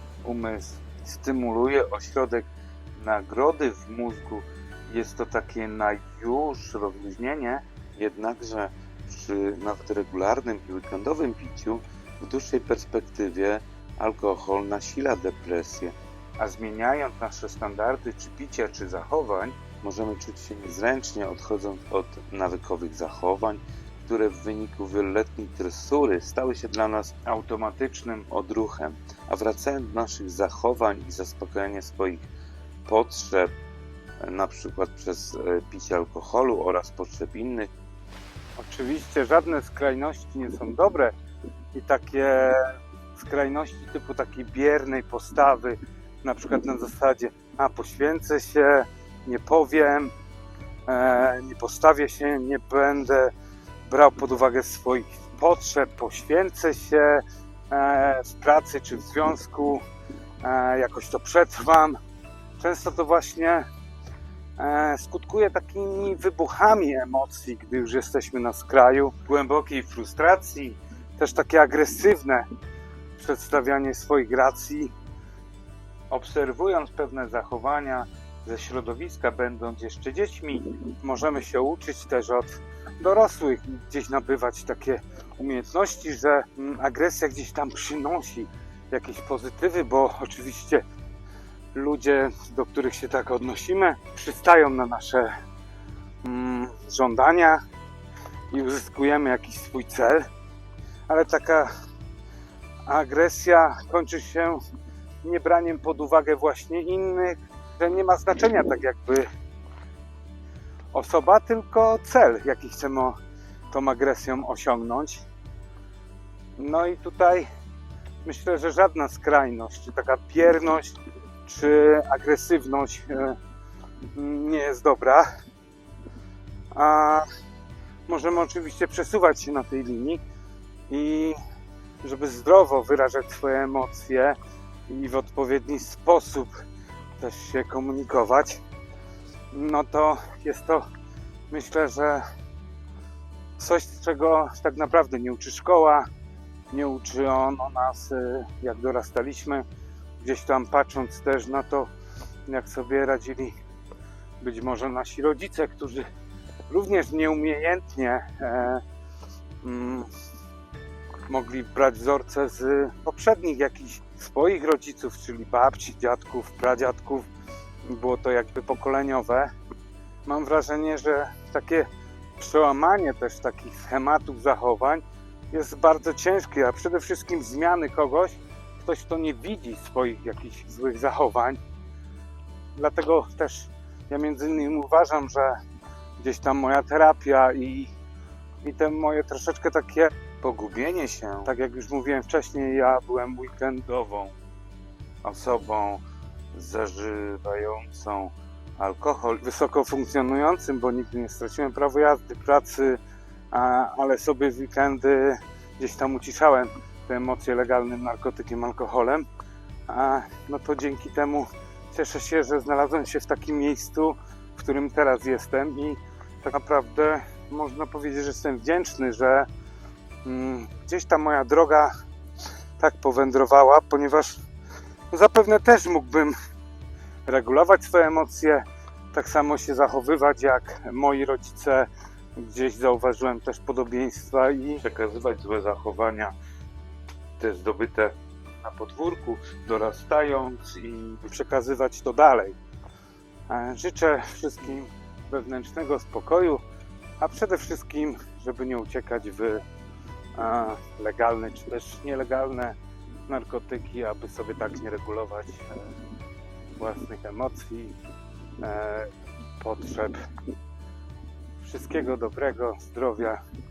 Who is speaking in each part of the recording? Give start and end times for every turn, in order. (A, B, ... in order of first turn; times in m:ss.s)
0:00.2-0:32.3 A
0:32.9-0:33.5 A
0:34.2-0:37.7 A
0:38.6-0:41.1 B
0:41.7-0:50.1 B
0:50.9-0:53.3 B
0:53.9-0:59.8 B
1:00.4-1:02.0 B
1:02.6-1:03.6 B
1:04.6-1:09.2 B
1:09.3-1:10.8 A
1:11.2-1:12.4 B
1:13.2-1:14.9 B
1:16.1-1:20.8 A
1:21.0-1:30.8 B
1:31.7-1:35.3 B
1:36.2-1:37.6 B
1:38.5-1:40.3 B
1:41.1-1:41.7 B
1:42.9-1:44.6 B
1:45.2-1:49.3 B
1:50.9-1:53.2 B
1:53.7-1:55.2 B
1:56.6-1:57.5 B
1:58.2-2:03.4 B
2:04.1-2:05.3 B
2:06.7-2:07.3 B
2:08.1-2:10.2 B
2:10.9-2:11.4 B
2:12.0-2:14.4 B
2:14.9-2:16.5 B
2:17.2-2:18.6 B
2:19.5-2:20.8 B
2:21.5-2:22.2 B
2:23.6-2:26.0 B
2:26.7-2:29.6 B
2:30.2-2:31.9 B
2:32.5-2:33.5 B
2:34.4-2:36.0 B
2:36.7-2:38.8 B
2:39.6-2:40.1 B
2:41.3-2:47.3 B
2:47.8-2:49.5 B
2:50.2-2:51.9 B
2:52.4-3:01.6 B
3:02.8-3:05.6 B
3:06.2-3:07.9 B
3:08.6-3:10.1 B
3:10.4-3:11.5 A
3:11.4-3:13.9 B
3:13.9-3:14.4 A
3:15.2-3:19.4 A
3:19.4-3:23.0 B
3:23.5-3:29.3 B
3:29.9-3:39.5 B
3:40.2-3:41.9 B
3:42.8-3:44.4 B
3:45.1-3:46.4 B
3:47.3-3:54.8 B
3:54.8-3:56.3 A
3:57.4-4:01.2 A
4:01.2-4:02.6 B
4:03.5-4:06.6 B
4:07.2-4:09.6 B
4:10.4-4:12.8 B
4:13.3-4:15.9 B
4:16.8-4:18.0 B
4:18.6-4:20.2 B
4:21.6-4:23.4 B